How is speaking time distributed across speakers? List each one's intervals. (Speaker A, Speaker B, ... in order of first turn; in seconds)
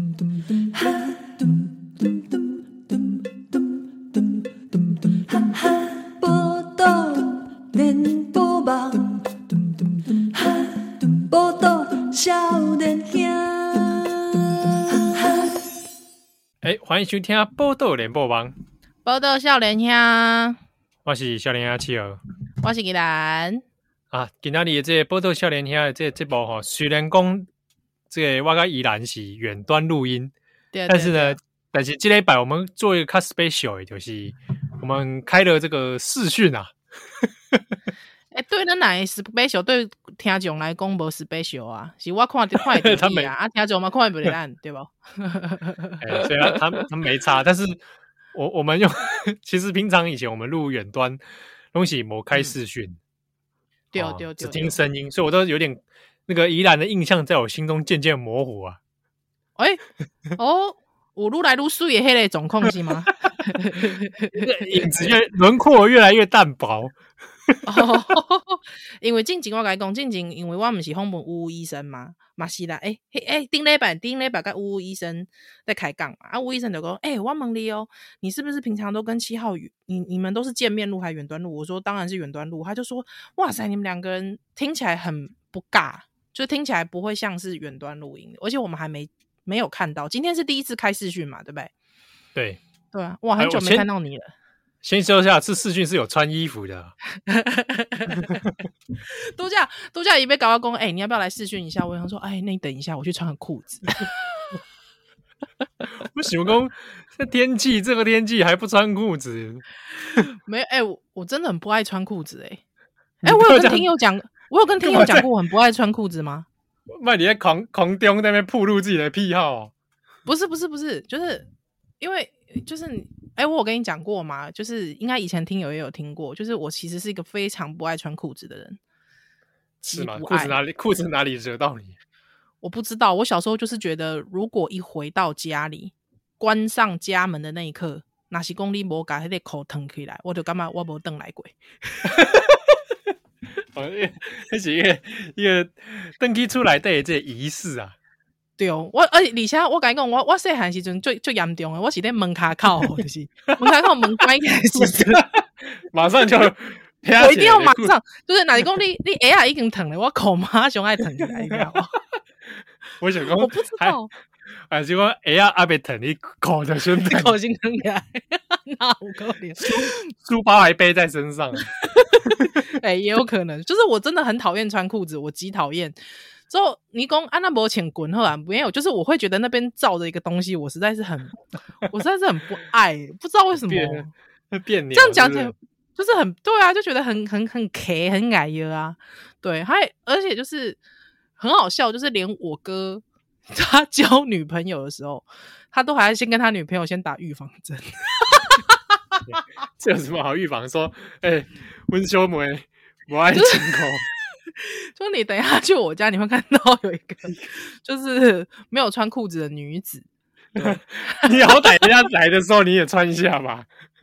Speaker A: 0.6-15.6
Speaker B: 16.6-18.5, 21.0-22.2, 24.1-27.5, 28.1-30.3, 30.9-37.6, 42.7-43.3, 46.0-47.8, 48.3-51.2, 51.7-53.0, 53.9-58.8, 64.3-67.0, 67.5-67.9, 92.3-92.6, 93.4-93.9, 94.8-96.9, 98.2-98.5, 106.0-109.6, 113.2-113.8, 114.8-115.3, 116.9-119.7, 129.9-131.9, 142.0-142.8, 143.7-147.9, 154.8-157.9, 161.2-161.8, 163.0-164.0, 164.7-167.4, 169.6-171.7, 172.3-172.6, 183.6-185.5, 199.2-204.1, 210.6-213.7
Speaker C: 19.0-20.6, 22.6-23.6, 30.7-31.4, 38.3-46.0, 53.9-54.8, 59.6-59.8, 60.4-64.8, 67.7-91.7, 92.9-94.3, 97.3-98.4, 99.0-104.2, 110.2-112.6, 113.2-116.5, 120.2-121.5, 122.0-128.8, 129.8-130.6, 132.6-142.2, 148.6-155.2, 157.2-161.9, 163.4-164.1, 166.9-170.0, 171.8-175.9, 176.5-184.1, 184.9-190.8, 191.4-199.2, 203.3-204.0, 204.6-210.0, 210.6-211.9